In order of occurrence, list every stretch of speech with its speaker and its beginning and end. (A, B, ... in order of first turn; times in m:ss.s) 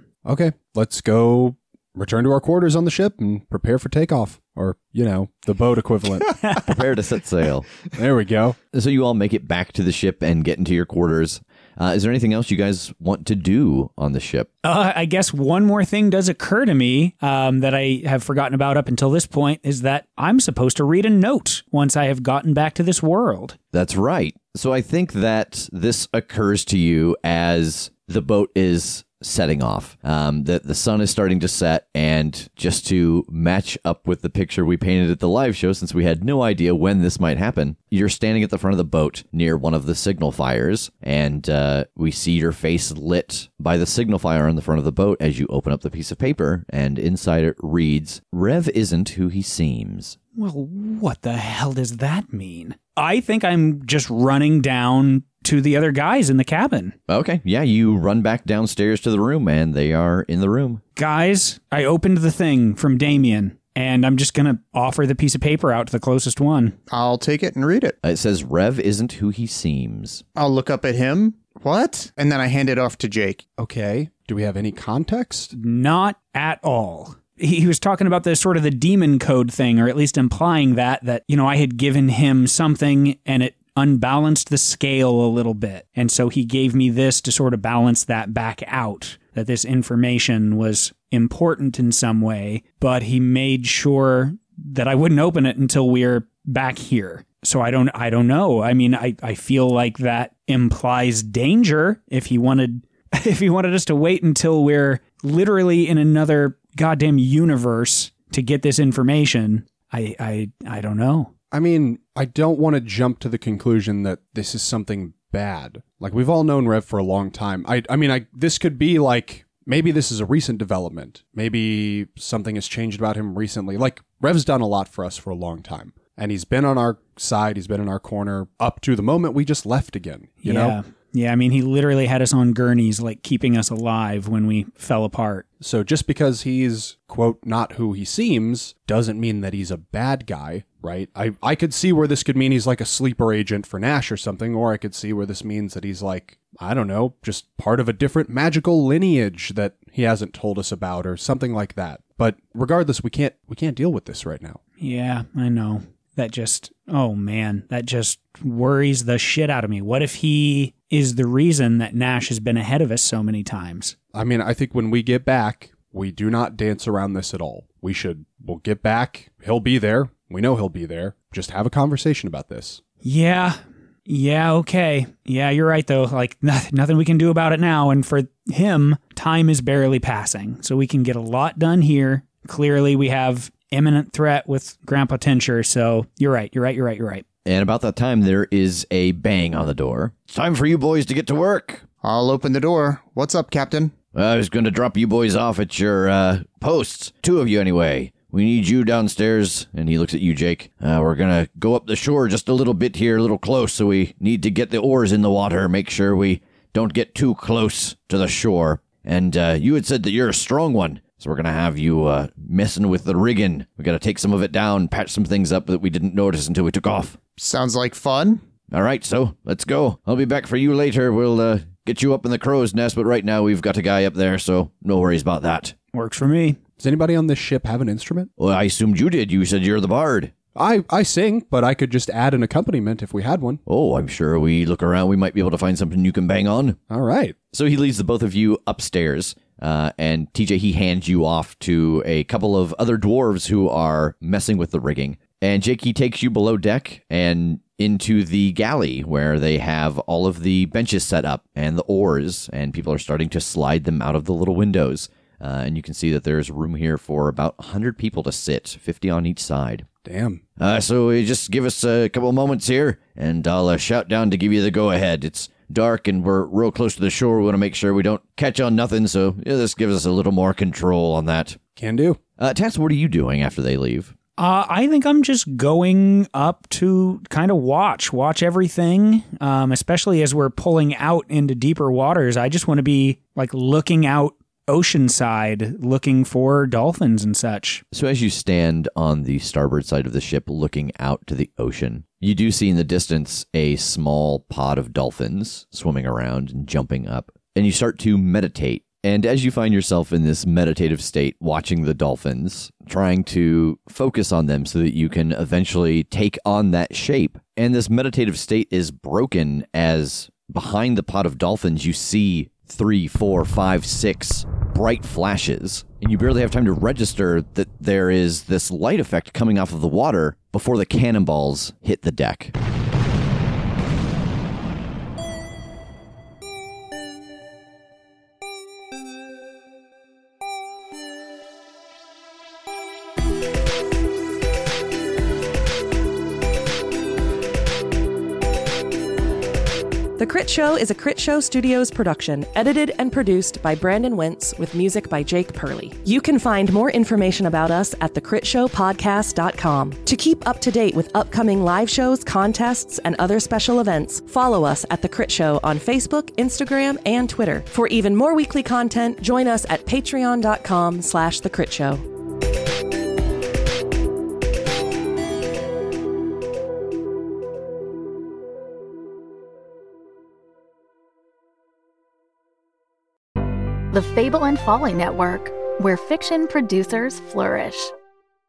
0:00.2-0:06.4 A
0:06.4-0:06.7 B
0:06.6-0:07.7 C
0:08.0-0:08.6 A
0:08.7-0:14.5 C
0:14.6-0:23.6 B
0:23.7-0:50.2 C
0:50.4-0:57.0 B
0:57.1-1:00.8 C
1:01.0-1:06.8 B
1:06.9-1:08.0 D
1:08.0-1:10.2 C
1:10.4-1:13.4 D
1:13.6-1:15.5 A
1:15.5-1:51.3 B
1:51.5-2:10.8 A
2:10.4-2:15.4 B
2:15.6-2:34.6 A
2:34.8-2:44.0 B
2:44.1-2:52.8 A
2:53.0-2:53.6 B
2:54.1-3:07.2 B
3:07.4-3:11.8 C
3:12.0-3:13.9 D
3:14.1-3:37.2 C
3:37.4-3:38.4 D
3:38.7-3:45.8 C
3:45.9-3:46.6 B
3:46.8-3:48.3 A
3:48.4-3:50.3 C
3:50.6-3:53.6 A
3:53.7-3:56.8 C
3:56.9-3:57.4 A
3:57.5-4:19.9 C
4:20.0-4:20.4 A
4:20.6-4:31.6 C
4:31.8-4:32.2 A
4:32.4-4:34.1 C
4:34.4-4:47.8 B
4:47.9-5:22.5 C
5:40.2-6:02.0 E
6:13.9-6:17.9 F